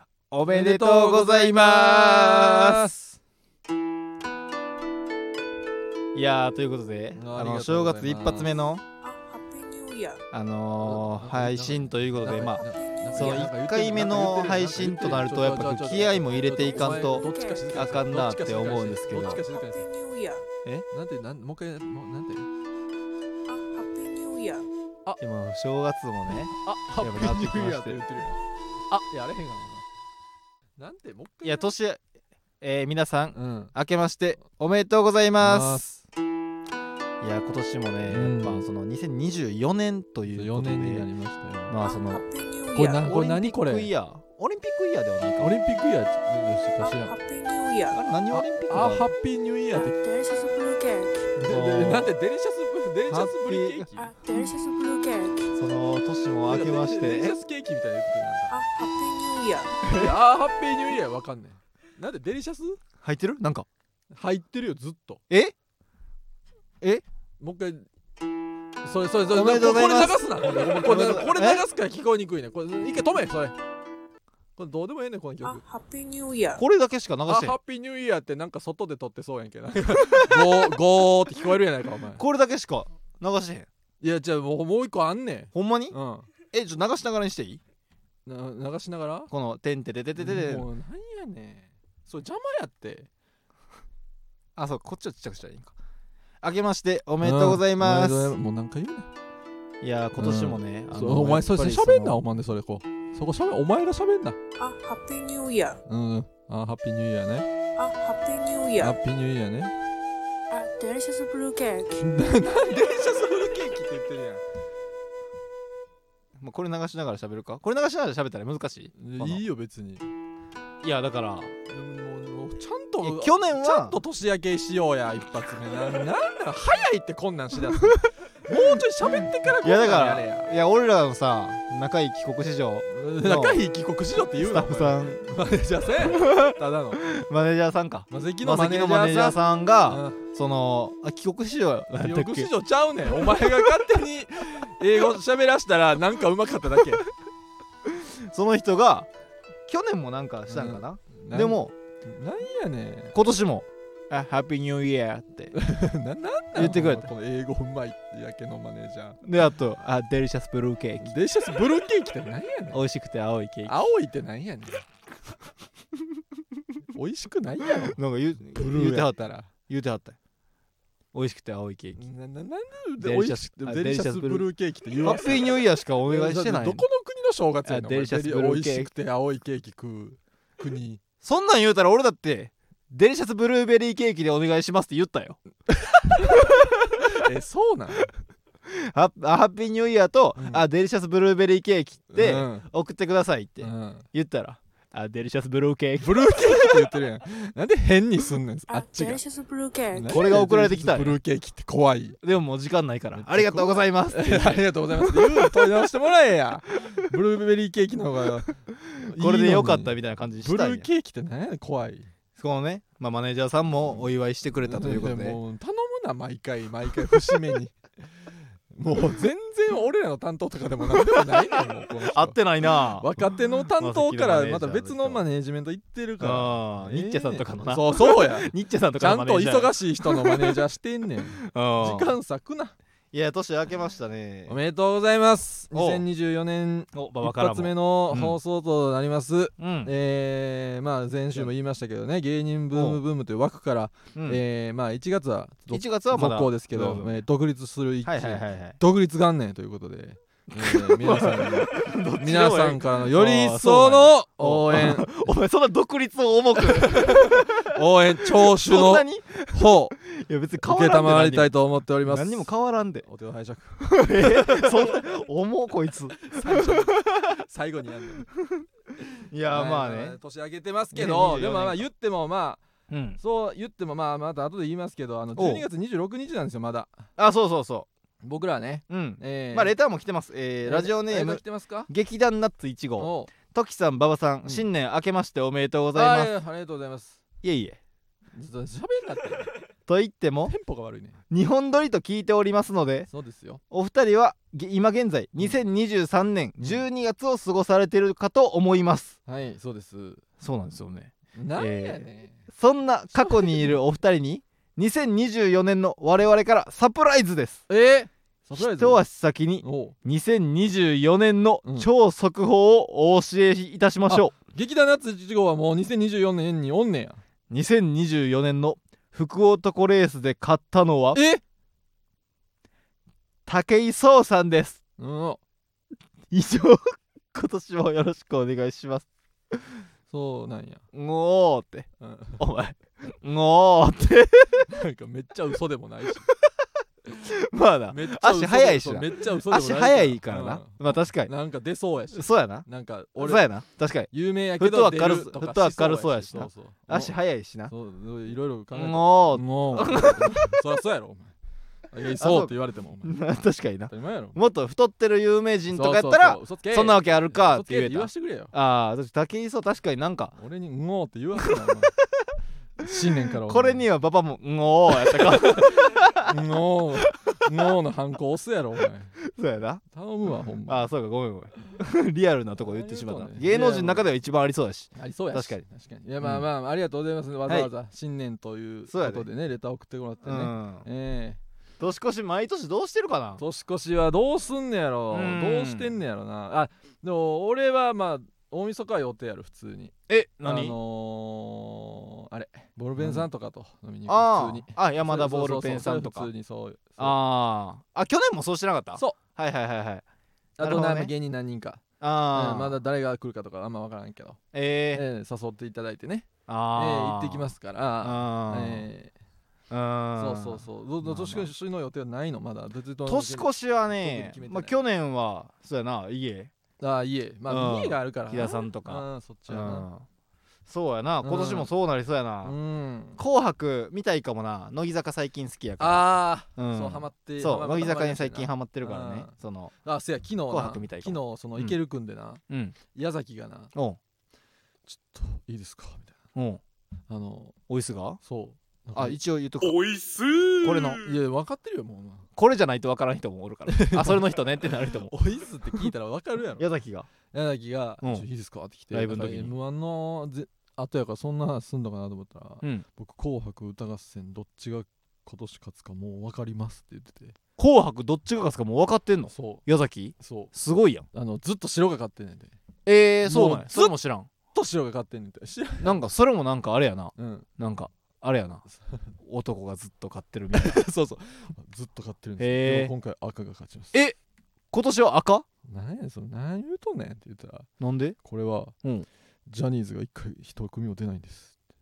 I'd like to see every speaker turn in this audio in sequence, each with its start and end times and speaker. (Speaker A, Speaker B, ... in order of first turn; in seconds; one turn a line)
Speaker A: 0.3-2.9
Speaker B: 0.5-3.2
Speaker A: 6.1-8.8
Speaker B: 7.1-8.5
Speaker C: 9.0-10.2
Speaker A: 10.3-12.6
Speaker B: 10.8-19.8
Speaker C: 12.4-13.4
Speaker A: 13.1-19.4
Speaker C: 16.6-17.9
Speaker C: 19.1-20.4
Speaker B: 20.9-22.5
Speaker C: 23.5-24.7
Speaker A: 25.2-28.0
Speaker B: 26.5-29.8
Speaker B: 30.8-31.7
Speaker A: 31.4-32.0
Speaker A: 32.6-35.8
Speaker B: 33.3-33.7
Speaker B: 35.4-36.0
Speaker A: 37.2-41.1
Speaker B: 38.0-38.7
Speaker B: 40.3-41.7
Speaker A: 41.7-42.2
Speaker C: 41.8-43.1
Speaker B: 42.7-43.9
Speaker A: 43.0-45.5
Speaker B: 45.4-47.1
Speaker C: 46.8-48.0
Speaker A: 47.9-49.1
Speaker B: 48.3-50.0
Speaker C: 49.7-51.3
Speaker B: 51.3-54.1
Speaker A: 51.4-52.1
Speaker A: 53.1-53.9
Speaker C: 54.0-55.5
Speaker A: 55.5-57.4
Speaker B: 56.5-58.5
Speaker C: 58.5-59.8
Speaker A: 59.9-60.1
Speaker B: 59.9-62.8
Speaker A: 63.0-63.6
Speaker B: 64.1-65.2
Speaker B: 67.4-67.9
Speaker B: 68.8-73.5
Speaker A: 69.3-71.6
Speaker B: 74.6-75.6
Speaker C: 75.4-76.6
Speaker A: 76.6-77.5
Speaker B: 77.3-82.2
Speaker A: 80.0-80.8
Speaker A: 82.2-83.7
Speaker B: 84.0-86.3
Speaker A: 85.5-85.9
Speaker A: 86.5-87.6
Speaker B: 88.2-89.3
Speaker A: 89.3-90.7
Speaker B: 90.2-93.1
Speaker A: 94.5-95.8
Speaker A: 96.4-98.3
Speaker B: 97.2-99.1
Speaker A: 99.8-102.2
Speaker B: 100.2-104.4
Speaker C: 104.6-105.8
Speaker B: 105.9-107.5
Speaker C: 107.8-109.0
Speaker B: 108.8-109.7
Speaker C: 110.5-112.0
Speaker B: 112.0-114.4
Speaker A: 116.4-119.4
Speaker B: 118.9-120.1
Speaker A: 120.8-121.5
Speaker B: 121.7-130.5
Speaker A: 123.0-124.0
Speaker A: 129.6-133.6
Speaker B: 132.9-137.0
Speaker A: 134.4-135.2
Speaker A: 136.0-142.5
Speaker B: 138.1-140.2
Speaker B: 142.0-147.0
Speaker A: 143.2-143.8
Speaker A: 147.8-149.1
Speaker A: 149.7-151.7
Speaker B: 150.5-153.1
Speaker A: 153.1-155.5
Speaker B: 155.5-159.2
Speaker A: 156.5-157.1
Speaker A: 159.2-161.1
Speaker B: 161.0-162.8
Speaker A: 162.7-163.8
Speaker B: 163.7-164.8
Speaker B: 166.9-169.5
Speaker A: 167.8-170.2
Speaker A: 171.1-172.0
Speaker B: 172.0-181.0
Speaker A: 173.0-174.5
Speaker A: 175.0-176.8
Speaker A: 177.7-178.9
Speaker A: 181.2-185.4
Speaker B: 185.8-188.1
Speaker A: 186.2-187.2
Speaker A: 188.7-196.9
Speaker B: 190.3-190.6
Speaker B: 192.1-192.6
Speaker B: 193.6-194.0
Speaker B: 196.0-199.2
Speaker C: 198.7-200.4
Speaker B: 199.9-202.2
Speaker A: 200.1-201.2
Speaker A: 202.2-205.7
Speaker B: 203.1-212.1
Speaker A: 209.1-210.8
Speaker A: 212.4-215.4
Speaker B: 214.6-217.8
Speaker B: 218.7-232.7
Speaker A: 222.1-223.1
Speaker A: 223.8-225.2
Speaker A: 226.2-230.6
Speaker A: 231.4-232.1
Speaker A: 233.1-234.6
Speaker B: 234.5-255.2
Speaker A: 235.7-236.0
Speaker A: 236.9-238.4
Speaker A: 239.6-239.9
Speaker A: 242.7-243.0
Speaker A: 244.1-244.4
Speaker A: 245.7-247.2
Speaker A: 248.1-248.8
Speaker A: 250.5-261.5
Speaker B: 256.7-259.9
Speaker B: 260.6-262.5
Speaker A: 262.0-263.0
Speaker B: 263.0-265.0
Speaker A: 263.9-267.4
Speaker B: 266.2-268.3
Speaker A: 268.4-268.6
Speaker A: 269.3-270.2
Speaker B: 269.5-272.6
Speaker A: 270.9-271.8
Speaker A: 272.9-273.2
Speaker B: 273.2-276.9
Speaker A: 275.4-275.6
Speaker A: 277.2-277.9
Speaker B: 278.2-279.7
Speaker A: 278.9-286.3
Speaker B: 280.6-281.9
Speaker B: 283.0-283.3
Speaker B: 285.9-287.2
Speaker A: 287.4-287.8
Speaker B: 288.3-289.5
Speaker A: 289.9-290.5
Speaker B: 290.5-291.2
Speaker A: 291.3-293.1
Speaker B: 293.1-293.6
Speaker A: 293.7-299.2
Speaker B: 299.2-300.2
Speaker A: 300.4-307.6
Speaker B: 301.4-302.4
Speaker B: 303.2-303.6
Speaker B: 307.7-309.0
Speaker A: 308.6-314.3
Speaker B: 309.6-309.9
Speaker B: 314.1-317.2
Speaker A: 317.5-321.2
Speaker B: 321.1-321.4
Speaker A: 323.4-324.8
Speaker B: 325.0-325.4
Speaker A: 326.3-329.5
Speaker B: 330.1-330.8
Speaker A: 330.9-334.7
Speaker B: 332.0-332.4
Speaker B: 334.6-336.3
Speaker A: 337.1-341.3
Speaker B: 337.9-343.4
Speaker A: 342.1-342.6
Speaker A: 343.2-347.7
Speaker B: 344.1-347.1
Speaker B: 347.7-351.3
Speaker A: 348.7-350.6
Speaker B: 351.9-353.2
Speaker A: 352.2-352.5
Speaker A: 353.0-360.3
Speaker B: 353.9-354.4
Speaker B: 355.7-358.5
Speaker B: 360.4-361.9
Speaker A: 361.4-362.3
Speaker B: 362.8-363.8
Speaker A: 362.8-366.4
Speaker B: 365.1-369.1
Speaker A: 367.0-367.7
Speaker A: 369.2-369.8
Speaker B: 369.9-370.9
Speaker A: 370.7-375.6
Speaker B: 372.6-374.1
Speaker B: 374.9-381.4
Speaker A: 378.9-379.3
Speaker A: 380.2-380.8
Speaker A: 381.8-383.4
Speaker B: 383.4-397.2
Speaker A: 385.1-386.0
Speaker A: 390.1-390.8
Speaker A: 393.0-393.3
Speaker A: 394.1-396.3
Speaker A: 397.0-400.0
Speaker B: 400.6-404.4
Speaker A: 400.6-401.1
Speaker A: 402.0-402.8
Speaker A: 404.5-405.0
Speaker B: 404.9-409.1
Speaker A: 406.5-408.9
Speaker A: 409.7-411.5
Speaker B: 410.2-414.8
Speaker A: 413.1-416.5
Speaker B: 416.8-419.9
Speaker A: 417.5-420.0
Speaker A: 420.7-422.6
Speaker B: 421.2-421.7
Speaker B: 422.4-423.2
Speaker A: 423.2-429.7
Speaker B: 425.8-433.7
Speaker A: 430.5-431.7
Speaker A: 432.5-432.8
Speaker B: 434.9-436.1
Speaker A: 436.3-436.6
Speaker B: 437.1-437.6
Speaker A: 437.7-438.2
Speaker B: 438.2-439.2
Speaker A: 438.9-439.8
Speaker A: 440.6-441.0
Speaker B: 440.9-442.3
Speaker A: 442.4-445.1
Speaker B: 443.7-446.7
Speaker A: 446.6-447.1
Speaker B: 447.3-457.4
Speaker A: 448.9-449.5
Speaker A: 457.6-461.1
Speaker B: 459.3-459.6
Speaker B: 460.2-460.5
Speaker B: 461.1-462.5
Speaker A: 462.9-464.3
Speaker B: 463.2-463.9
Speaker B: 464.5-466.0
Speaker A: 465.8-468.6
Speaker B: 467.1-467.5
Speaker A: 469.2-470.8
Speaker B: 470.5-473.9
Speaker A: 472.4-472.9
Speaker A: 474.7-475.4
Speaker B: 475.7-477.7
Speaker A: 477.8-478.1
Speaker B: 478.2-478.7
Speaker B: 479.5-481.5